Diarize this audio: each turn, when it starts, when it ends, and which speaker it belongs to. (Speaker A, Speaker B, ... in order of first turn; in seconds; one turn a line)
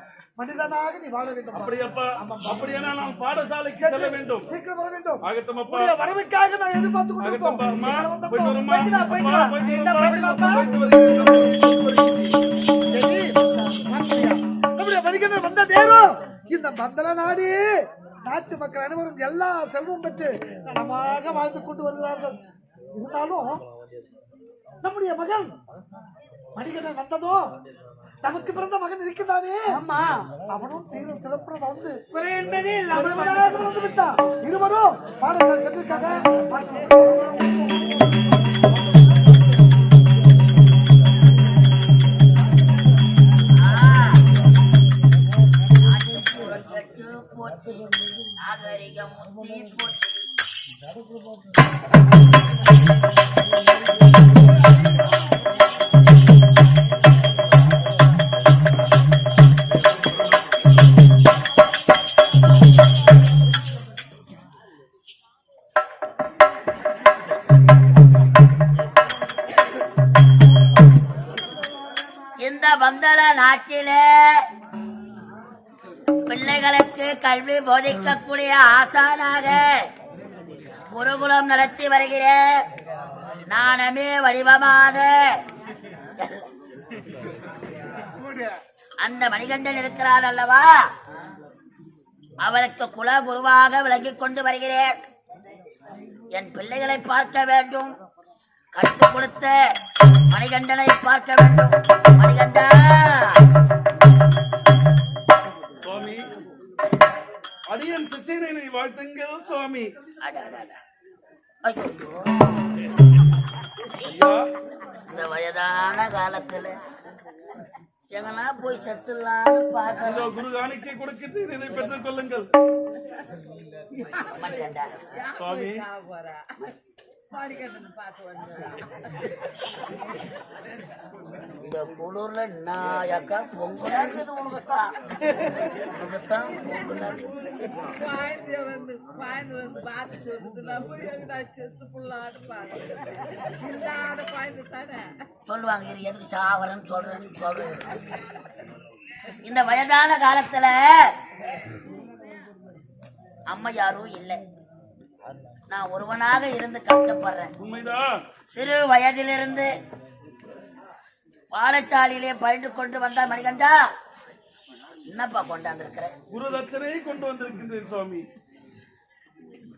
Speaker A: 0.4-2.7
Speaker B: 1.5-4.5
Speaker A: 3.8-8.9
Speaker B: 5.2-6.0
Speaker B: 7.2-12.3
Speaker C: 8.8-10.7
Speaker A: 12.9-13.4
Speaker A: 13.9-22.4
Speaker A: 22.9-23.6
Speaker A: 24.8-25.6
Speaker A: 26.6-27.5
Speaker A: 28.2-29.7
Speaker C: 29.8-30.3
Speaker A: 30.5-32.0
Speaker C: 32.1-33.7
Speaker A: 32.9-38.2
Speaker D: 43.6-44.2
Speaker D: 45.8-50.0
Speaker D: 72.4-74.4
Speaker D: 76.3-79.8
Speaker D: 80.9-82.6
Speaker D: 83.5-85.4
Speaker D: 86.2-86.5
Speaker A: 88.2-88.6
Speaker D: 89.0-90.7
Speaker D: 92.4-95.0
Speaker D: 96.3-98.0
Speaker D: 98.7-99.5
Speaker D: 100.3-103.4
Speaker B: 105.8-106.2
Speaker B: 107.7-109.9
Speaker D: 110.2-110.8
Speaker D: 111.7-112.7
Speaker B: 114.0-114.5
Speaker D: 115.1-116.8
Speaker D: 118.1-120.3
Speaker B: 120.0-122.5
Speaker D: 124.3-124.9
Speaker E: 125.2-126.4
Speaker B: 125.4-125.8
Speaker E: 127.3-128.9
Speaker D: 131.6-134.9
Speaker D: 135.9-137.3
Speaker E: 137.9-142.9
Speaker E: 143.6-145.1
Speaker D: 145.5-148.1
Speaker D: 149.4-151.0
Speaker D: 153.5-154.4
Speaker D: 155.7-157.5
Speaker B: 157.6-158.2
Speaker D: 158.5-159.7
Speaker D: 161.5-163.8
Speaker D: 165.1-166.1
Speaker B: 166.3-168.3